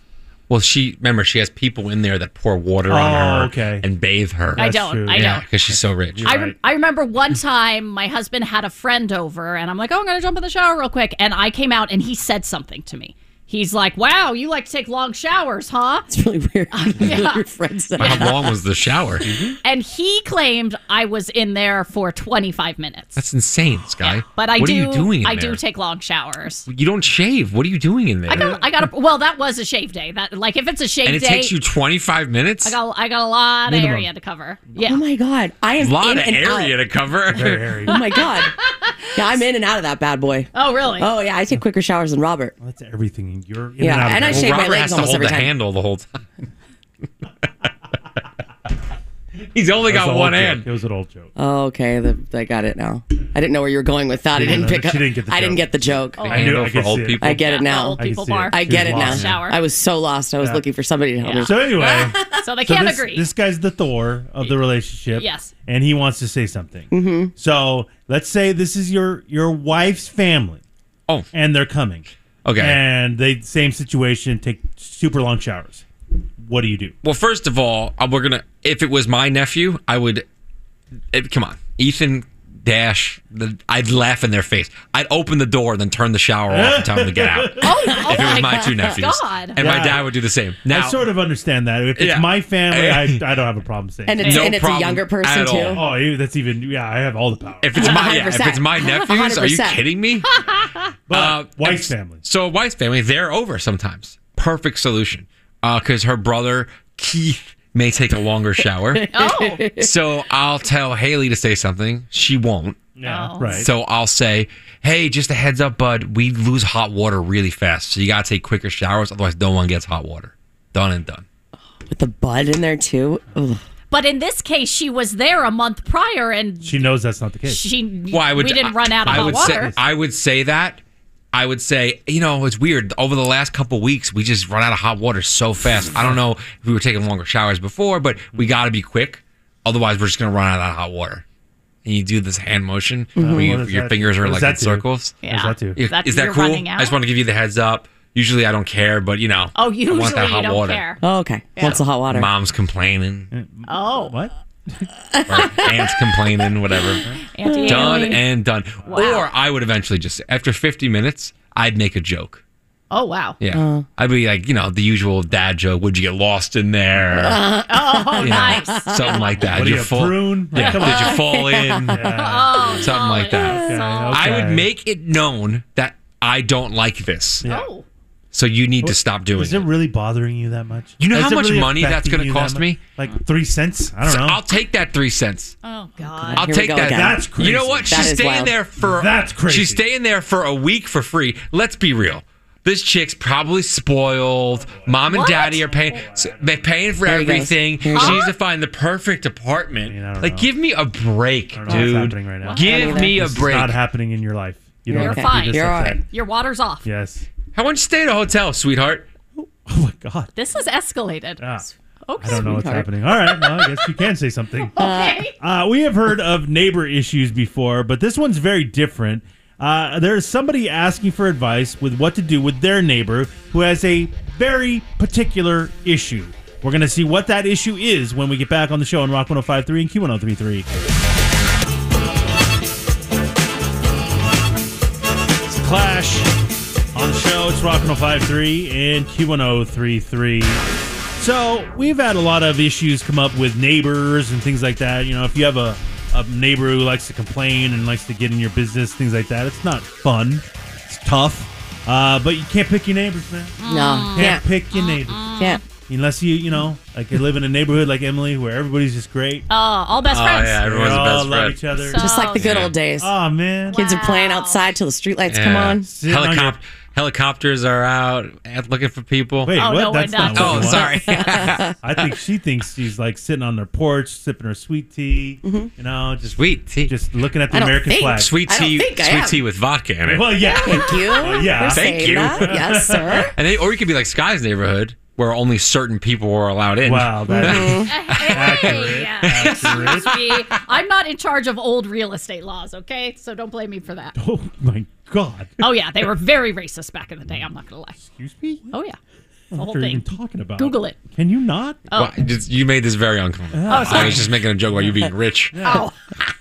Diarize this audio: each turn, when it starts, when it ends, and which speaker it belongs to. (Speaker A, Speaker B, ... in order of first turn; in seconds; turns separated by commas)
Speaker A: 0.5-6.3, Speaker B: 2.9-3.9, Speaker B: 4.5-6.6, Speaker C: 4.6-5.5, Speaker C: 6.2-16.1, Speaker D: 16.1-18.6, Speaker C: 16.7-17.4, Speaker C: 18.0-18.3, Speaker A: 18.0-19.3, Speaker B: 19.2-19.6, Speaker C: 19.6-23.2, Speaker A: 23.2-25.6, Speaker C: 24.0-26.7, Speaker A: 26.7-28.6, Speaker C: 28.3-31.5, Speaker B: 28.3-28.9, Speaker A: 31.1-32.8, Speaker C: 32.6-35.0, Speaker B: 33.7-34.1, Speaker D: 34.8-36.7, Speaker A: 35.8-37.8, Speaker B: 37.3-38.0, Speaker D: 37.9-38.6, Speaker C: 37.9-39.4, Speaker D: 39.1-42.5, Speaker C: 40.5-41.1, Speaker B: 42.6-44.7, Speaker D: 43.8-45.5, Speaker A: 44.2-46.2, Speaker A: 49.5-50.7, Speaker B: 49.9-51.3, Speaker D: 51.4-56.3, Speaker B: 54.3-57.4, Speaker C: 56.2-56.5, Speaker A: 56.3-57.4, Speaker D: 57.2-62.3, Speaker C: 57.3-59.6, Speaker B: 58.0-59.4, Speaker C: 61.2-63.3, Speaker B: 61.5-70.6, Speaker C: 65.1-65.5, Speaker D: 66.9-67.3, Speaker B: 71.3-72.1, Speaker A: 72.5-72.8, Speaker B: 72.6-75.8, Speaker B: 76.4-76.9, Speaker A: 77.0-80.2, Speaker A: 81.1-91.0, Speaker B: 86.5-88.0, Speaker C: 87.6-89.6, Speaker D: 88.3-88.7, Speaker B: 89.6-90.1, Speaker B: 90.7-94.4, Speaker A: 92.0-93.2, Speaker D: 94.1-95.8, Speaker C: 94.2-94.5, Speaker A: 94.2-95.8, Speaker B: 95.7-98.0, Speaker A: 97.6-100.3, Speaker D: 97.8-99.8, Speaker C: 100.3-100.9, Speaker B: 101.1-102.2, Speaker A: 101.1-109.1, Speaker D: 108.9-109.9, Speaker C: 109.1-109.6, Speaker A: 109.8-112.9, Speaker B: 113.0-113.7, Speaker C: 113.0-113.7, Speaker A: 113.4-121.2, Speaker D: 121.9-123.6, Speaker C: 123.9-126.9, Speaker B: 126.6-127.6, Speaker C: 127.5-129.7, Speaker A: 128.1-130.8, Speaker B: 129.1-129.8, Speaker A: 131.3-141.2, Speaker B: 135.9-136.2, Speaker A: 141.8-145.2, Speaker D: 143.2-143.6, Speaker B: 143.2-145.8, Speaker C: 145.2-146.9, Speaker A: 145.8-150.8, Speaker C: 149.6-151.0, Speaker D: 151.0-152.3, Speaker C: 151.6-151.8, Speaker A: 151.6-153.3, Speaker B: 153.3-154.9, Speaker C: 153.7-154.1, Speaker D: 155.2-155.9, Speaker A: 155.3-157.1, Speaker C: 157.3-158.2, Speaker D: 157.4-158.2, Speaker A: 157.7-162.4, Speaker B: 158.8-159.1, Speaker C: 158.9-159.3, Speaker C: 162.9-163.4, Speaker A: 163.4-167.4, Speaker D: 163.5-163.8, Speaker D: 167.1-169.3, Speaker C: 167.7-169.3, Speaker A: 168.2-172.0, Speaker B: 169.5-174.7, Speaker C: 170.6-171.1, Speaker D: 170.8-172.1, Speaker C: 172.2-174.4, Speaker A: 172.8-177.4, Speaker B: 177.4-177.7, Speaker C: 177.4-177.9, Speaker A: 178.3-179.7, Speaker B: 178.8-184.4, Speaker A: 181.0-182.8, Speaker A: 184.0-185.6, Speaker C: 185.6-186.5, Speaker B: 186.1-188.2, Speaker D: 186.3-187.2, Speaker A: 186.3-203.8, Speaker D: 187.9-188.6, Speaker B: 188.8-189.8, Speaker B: 194.5-196.8, Speaker C: 195.1-195.8, Speaker D: 197.1-198.2, Speaker C: 197.9-198.3, Speaker B: 199.9-200.5, Speaker B: 201.5-206.0, Speaker C: 202.4-203.0, Speaker D: 202.6-203.2, Speaker D: 204.9-206.0, Speaker C: 204.9-206.9, Speaker B: 206.8-207.3, Speaker A: 207.5-209.1, Speaker B: 209.4-210.3, Speaker C: 210.3-211.4, Speaker B: 211.4-211.7, Speaker C: 212.1-212.7, Speaker B: 212.2-214.8, Speaker D: 212.3-212.9, Speaker C: 213.3-213.8, Speaker C: 214.7-215.3, Speaker D: 214.8-215.2, Speaker B: 215.4-230.7, Speaker B: 235.5-236.3, Speaker B: 236.9-240.6, Speaker B: 241.2-253.6, Speaker C: 253.6-255.6, Speaker D: 253.7-254.4, Speaker B: 254.1-259.5, Speaker C: 259.5-260.6, Speaker A: 260.1-261.6, Speaker B: 260.6-262.2, Speaker C: 261.8-262.5, Speaker D: 261.9-263.1, Speaker A: 262.3-262.8, Speaker B: 263.0-263.8, Speaker C: 263.7-264.7, Speaker D: 263.7-265.9, Speaker A: 265.3-269.5, Speaker B: 265.9-266.6, Speaker B: 269.4-270.9, Speaker C: 269.5-270.9, Speaker A: 270.2-271.7, Speaker D: 271.1-271.7, Speaker B: 271.8-278.3, Speaker D: 275.4-275.7, Speaker A: 276.4-276.9, Speaker D: 277.5-279.4, Speaker A: 278.1-280.4, Speaker B: 280.1-283.3, Speaker C: 280.4-281.5, Speaker D: 280.6-283.3, Speaker A: 281.7-290.4, Speaker B: 286.8-290.2, Speaker D: 287.4-287.9, Speaker C: 287.9-294.2, Speaker B: 294.2-295.6, Speaker C: 295.6-298.0, Speaker B: 298.0-298.7, Speaker C: 298.7-299.0, Speaker B: 299.5-301.8, Speaker C: 299.5-301.0, Speaker C: 301.9-302.1, Speaker A: 301.9-305.6, Speaker B: 303.5-305.9, Speaker C: 303.7-304.2, Speaker C: 305.6-305.9